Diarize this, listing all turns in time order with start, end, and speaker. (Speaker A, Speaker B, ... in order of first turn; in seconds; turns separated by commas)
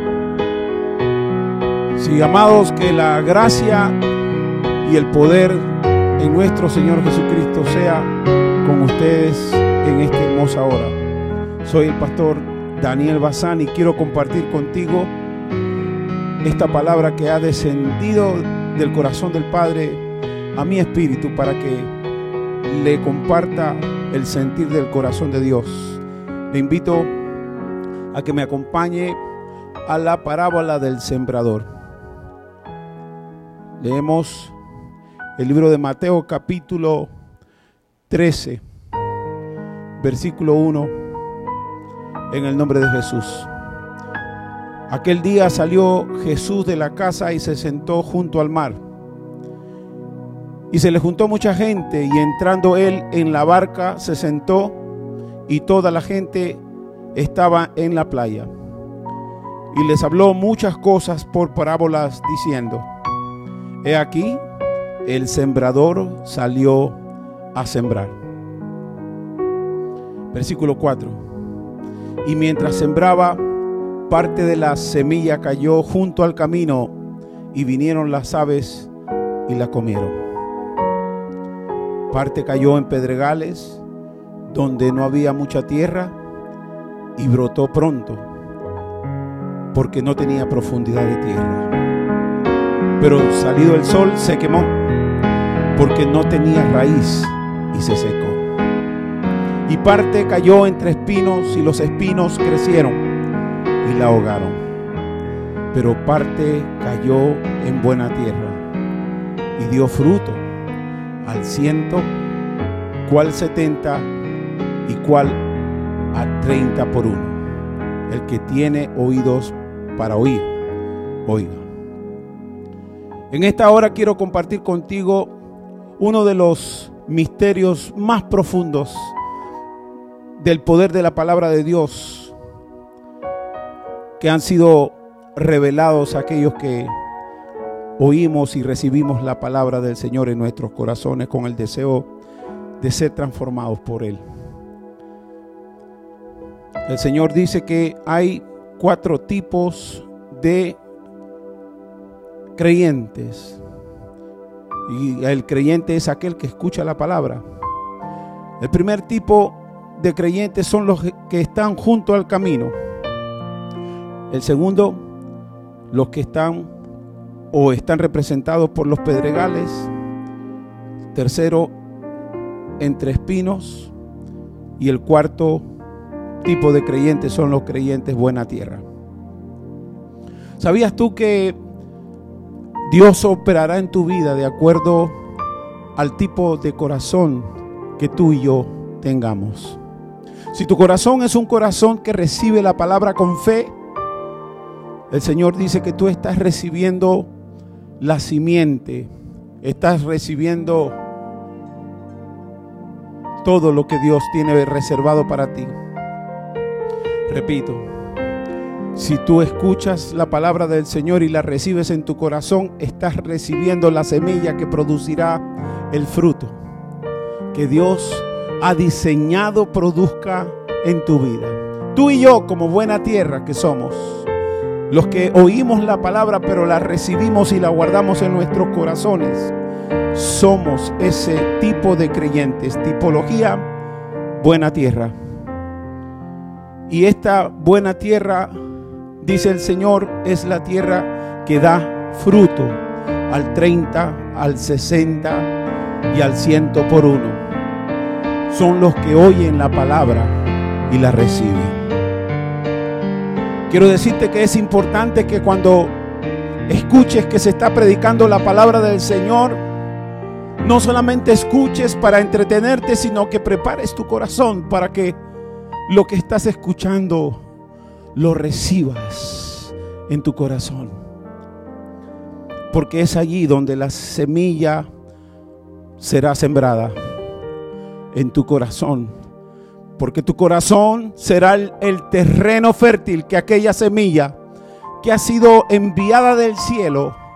Speaker A: 2.0-4.0, Speaker A: 4.8-8.1, Speaker A: 8.6-11.0, Speaker A: 11.6-15.1, Speaker A: 16.4-20.0, Speaker A: 20.6-21.9, Speaker A: 22.6-27.1, Speaker A: 28.1-29.2, Speaker A: 29.9-31.7, Speaker A: 33.8-34.5, Speaker A: 35.4-37.1, Speaker A: 38.1-38.6, Speaker A: 40.0-40.9, Speaker A: 42.3-43.5, Speaker A: 44.9-48.8, Speaker A: 50.7-54.8, Speaker A: 55.5-56.6, Speaker A: 57.1-58.5, Speaker A: 59.7-62.9, Speaker A: 63.8-64.4, Speaker A: 65.0-67.0, Speaker A: 67.5-68.2, Speaker A: 70.3-71.2, Speaker A: 72.2-73.4, Speaker A: 74.1-77.0, Speaker A: 77.5-78.9, Speaker A: 79.5-80.2, Speaker A: 82.1-83.8, Speaker A: 84.5-86.2, Speaker A: 87.2-88.3, Speaker A: 89.7-91.7, Speaker A: 93.0-94.8, Speaker A: 95.8-98.5, Speaker A: 99.7-103.0, Speaker A: 103.8-104.6, Speaker A: 105.7-108.6, Speaker A: 109.6-110.4, Speaker A: 111.2-112.1, Speaker A: 113.0-114.1, Speaker A: 114.9-115.4, Speaker A: 116.1-117.4, Speaker A: 118.1-120.5, Speaker A: 121.3-121.7, Speaker A: 123.3-125.3, Speaker A: 126.0-129.1, Speaker A: 130.4-132.3, Speaker A: 134.2-136.9, Speaker A: 138.0-142.1, Speaker A: 142.8-144.2, Speaker A: 146.9-150.8, Speaker A: 152.6-153.6, Speaker A: 154.9-157.4, Speaker A: 158.6-162.8, Speaker A: 164.3-165.0, Speaker A: 165.9-166.7, Speaker A: 167.5-169.9, Speaker A: 171.1-171.7, Speaker A: 172.8-173.9, Speaker A: 174.8-175.7, Speaker A: 176.4-178.8, Speaker A: 180.6-181.6, Speaker A: 182.9-185.2, Speaker A: 186.0-189.8, Speaker A: 190.5-193.7, Speaker A: 195.1-197.3, Speaker A: 198.0-199.1, Speaker A: 199.6-201.0, Speaker A: 203.4-205.8, Speaker A: 207.3-207.9, Speaker A: 208.9-216.6, Speaker A: 217.5-224.3, Speaker A: 224.9-229.5, Speaker A: 230.1-233.7, Speaker A: 234.4-235.1, Speaker A: 236.9-238.6, Speaker A: 239.2-245.5, Speaker A: 246.1-247.4, Speaker A: 248.5-250.3, Speaker A: 250.9-251.8, Speaker A: 253.7-255.9, Speaker A: 256.7-259.6, Speaker A: 260.6-265.2, Speaker A: 265.9-267.4, Speaker A: 268.1-271.0, Speaker A: 272.7-274.9, Speaker A: 276.0-277.0, Speaker A: 278.1-279.1, Speaker A: 280.0-284.4, Speaker A: 285.0-287.2